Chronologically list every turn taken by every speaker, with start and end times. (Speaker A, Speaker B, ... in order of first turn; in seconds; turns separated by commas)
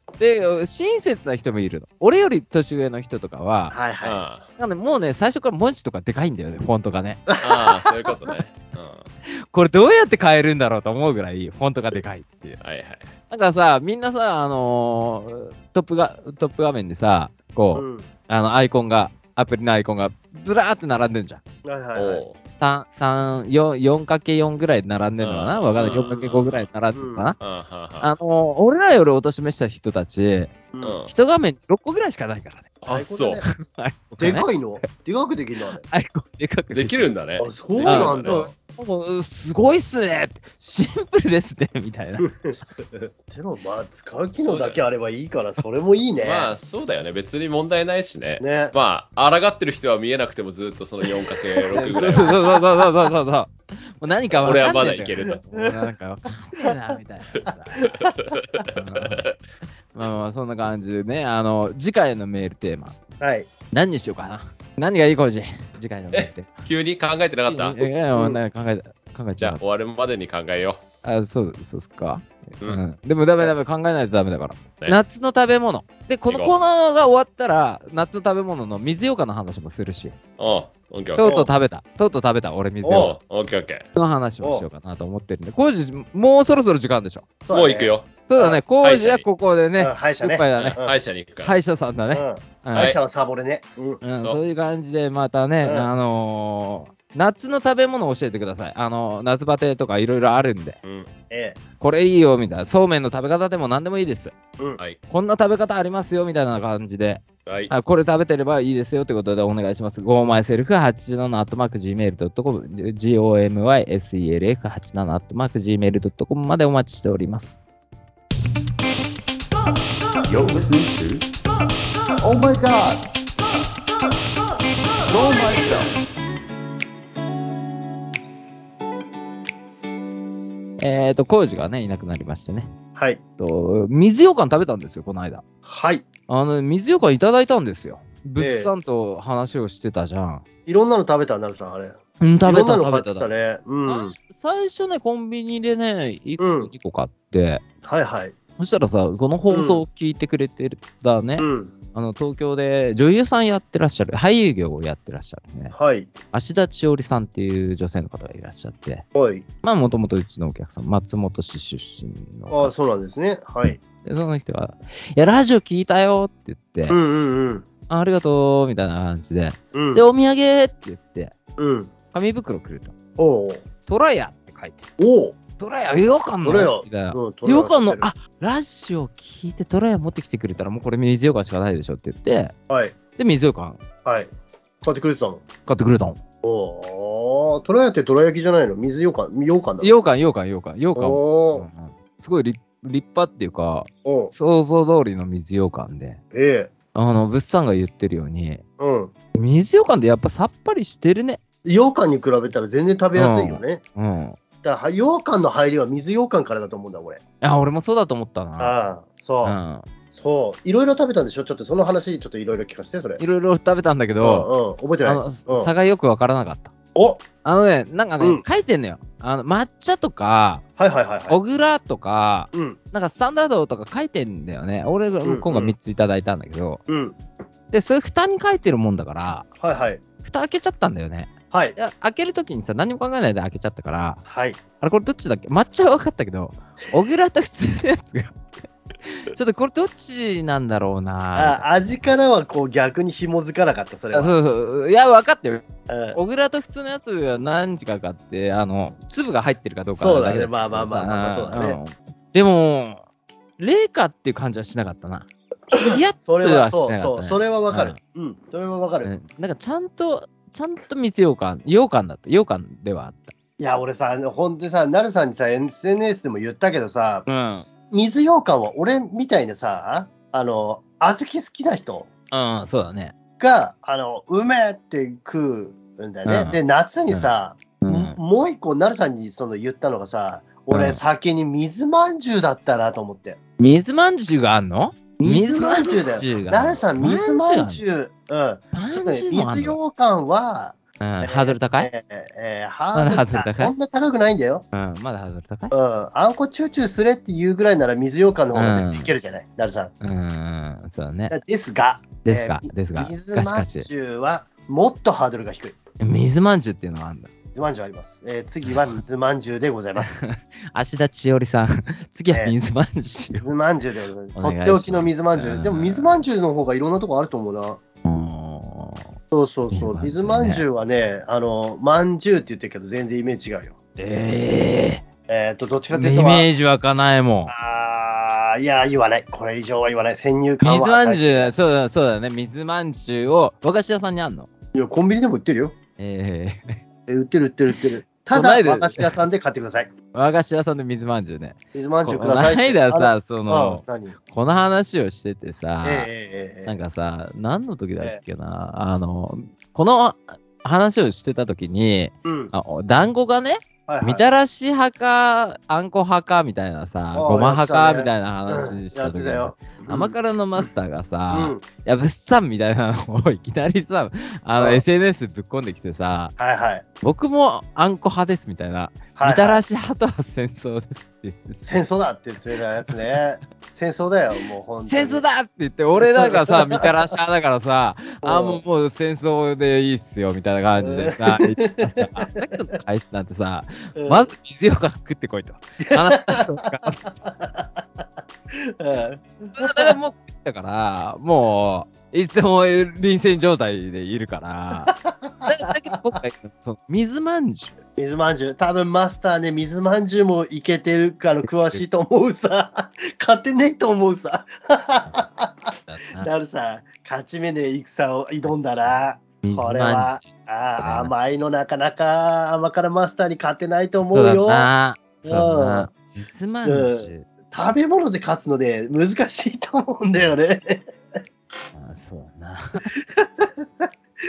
Speaker A: 0.2-3.8, Speaker B: 3.7-4.2, Speaker C: 4.0-4.5, Speaker A: 4.6-7.2, Speaker B: 7.3-7.8, Speaker C: 7.4-9.1, Speaker A: 9.5-12.6, Speaker C: 12.6-13.1, Speaker A: 13.3-21.4, Speaker B: 17.8-18.1, Speaker B: 21.6-22.2, Speaker C: 21.9-22.4, Speaker A: 22.6-27.4, Speaker C: 25.2-26.7, Speaker B: 25.8-26.3, Speaker B: 26.9-27.3, Speaker C: 27.4-28.1, Speaker A: 28.0-30.5, Speaker C: 30.8-31.1, Speaker A: 31.1-32.7, Speaker C: 32.8-33.4, Speaker B: 32.9-33.5, Speaker A: 33.5-34.9, Speaker B: 34.2-35.8, Speaker A: 35.8-37.1, Speaker C: 36.7-38.4, Speaker B: 37.4-38.5, Speaker A: 37.9-42.3, Speaker B: 42.2-46.5, Speaker C: 44.4-44.8, Speaker C: 46.2-52.4, Speaker B: 48.4-48.7, Speaker B: 51.0-52.8, Speaker A: 51.7-57.9, Speaker C: 54.4-55.5, Speaker B: 57.8-58.1, Speaker C: 58.1-59.4, Speaker A: 58.7-59.2, Speaker A: 59.9-63.0, Speaker B: 63.2-63.5, Speaker A: 63.7-66.7, Speaker C: 66.1-67.9, Speaker A: 67.5-69.6, Speaker B: 68.1-68.4, Speaker C: 69.4-70.8, Speaker A: 71.0-80.2, Speaker C: 76.3-76.6, Speaker C: 80.4-81.3, Speaker A: 81.2-83.1, Speaker B: 81.2-81.5, Speaker B: 82.8-83.1, Speaker C: 82.9-83.9, Speaker A: 84.0-87.3, Speaker B: 84.4-84.7, Speaker B: 87.5-88.6, Speaker C: 87.5-88.1, Speaker A: 88.3-90.8, Speaker C: 88.8-89.2, Speaker B: 89.8-91.0, Speaker C: 90.6-91.6, Speaker A: 91.4-93.0, Speaker B: 92.1-94.0, Speaker A: 94.0-100.8, Speaker B: 95.6-95.9, Speaker C: 100.8-101.1, Speaker B: 101.3-101.6, Speaker A: 101.8-104.3, Speaker A: 105.1-117.6, Speaker C: 107.5-107.7, Speaker D: 120.3-121.2, Speaker D: 122.2-123.0, Speaker D: 125.1-125.9, Speaker A: 130.8-132.7, Speaker B: 132.9-133.2, Speaker A: 133.4-135.4, Speaker B: 135.7-136.1, Speaker A: 136.3-140.4, Speaker B: 138.4-138.7, Speaker B: 140.7-144.1, Speaker A: 142.2-143.3, Speaker A: 143.8-147.6, Speaker B: 146.4-146.7, Speaker B: 147.8-148.4, Speaker A: 148.6-155.8, Speaker B: 149.5-149.8, Speaker B: 151.4-151.7, Speaker B: 155.7-156.1, Speaker A: 156.3-159.1, Speaker B: 159.2-159.4, Speaker A: 159.6-162.7, Speaker B: 162.5-163.8, Speaker A: 163.8-167.0, Speaker B: 166.9-167.7, Speaker A: 167.9-171.3, Speaker B: 169.7-170.0, Speaker B: 171.6-171.9, Speaker A: 172.1-172.9, Speaker B: 173.2-173.6, Speaker A: 173.9-174.9, Speaker B: 175.0-175.4, Speaker A: 175.6-182.5, Speaker B: 176.4-178.1, Speaker B: 182.7-182.9, Speaker A: 183.2-183.8, Speaker B: 184.1-184.3, Speaker B: 184.8-185.4, Speaker A: 185.7-186.2, Speaker B: 186.4-189.9, Speaker A: 189.8-196.2, Speaker B: 191.0-191.7, Speaker B: 194.1-194.3, Speaker B: 196.3-196.7, Speaker A: 196.9-198.6, Speaker B: 198.8-199.1, Speaker A: 199.3-201.4, Speaker B: 201.7-203.8, Speaker A: 203.2-204.4, Speaker B: 204.6-207.2, Speaker A: 207.4-208.8, Speaker B: 208.6-209.6, Speaker A: 209.4-209.9, Speaker B: 210.1-213.2, Speaker A: 213.2-214.5, Speaker B: 214.2-215.7, Speaker A: 215.0-216.7, Speaker B: 216.9-217.2, Speaker A: 217.4-220.6, Speaker B: 220.8-221.4, Speaker A: 221.3-226.8, Speaker B: 222.5-222.8, Speaker B: 225.2-225.8, Speaker B: 226.9-227.2, Speaker A: 227.7-229.5, Speaker B: 229.6-230.0, Speaker A: 230.2-234.2, Speaker B: 231.5-231.8, Speaker B: 234.3-234.6, Speaker A: 234.8-238.4, Speaker A: 239.0-242.1, Speaker B: 241.3-244.3, Speaker A: 244.1-253.0, Speaker B: 245.9-246.2, Speaker B: 250.0-251.8, Speaker A: 253.6-258.0, Speaker B: 255.7-259.1, Speaker A: 259.0-263.3, Speaker B: 263.6-267.2, Speaker A: 267.3-267.7, Speaker B: 267.9-272.1, Speaker A: 272.3-273.1, Speaker B: 273.4-283.4, Speaker A: 276.2-276.6, Speaker A: 277.1-278.2, Speaker A: 280.7-281.0, Speaker A: 283.6-287.8, Speaker B: 285.2-294.6, Speaker A: 288.7-289.8, Speaker A: 291.0-291.9, Speaker A: 292.9-293.7, Speaker A: 294.7-295.7, Speaker B: 295.7-299.9, Speaker A: 298.5-299.1, Speaker A: 300.0-301.4, Speaker B: 301.3-305.8, Speaker A: 302.2-303.9, Speaker A: 306.0-307.3, Speaker B: 307.6-310.2, Speaker A: 310.0-313.5, Speaker B: 313.4-317.8, Speaker A: 314.4-316.2, Speaker A: 318.1-319.1, Speaker B: 319.3-323.8, Speaker A: 319.7-320.6, Speaker A: 324.0-325.1, Speaker B: 325.3-326.5, Speaker A: 325.9-327.5, Speaker B: 327.5-331.5, Speaker A: 330.6-334.5, Speaker B: 334.8-335.8, Speaker A: 336.0-336.8, Speaker B: 337.1-339.9, Speaker A: 338.3-339.1, Speaker A: 340.1-346.1, Speaker B: 341.7-344.2, Speaker B: 345.8-346.8, Speaker A: 346.6-366.4, Speaker B: 352.2-352.5, Speaker B: 353.9-354.3, Speaker B: 357.1-360.7, Speaker B: 361.3-361.6, Speaker B: 364.6-364.8, Speaker B: 366.4-366.9, Speaker A: 367.0-371.8, Speaker B: 369.2-369.6, Speaker B: 371.6-375.2, Speaker A: 374.8-387.1, Speaker B: 376.0-376.9, Speaker B: 378.2-378.6, Speaker B: 380.8-382.5, Speaker B: 384.0-384.3, Speaker B: 385.8-389.9, Speaker A: 389.6-394.9, Speaker B: 394.9-395.7, Speaker A: 395.4-397.8, Speaker B: 398.0-414.7, Speaker A: 401.5-401.8, Speaker A: 405.9-406.3, Speaker A: 409.4-411.1, Speaker A: 414.0-417.3, Speaker B: 415.2-415.9, Speaker B: 416.6-421.2, Speaker A: 421.7-422.9, Speaker B: 423.1-423.9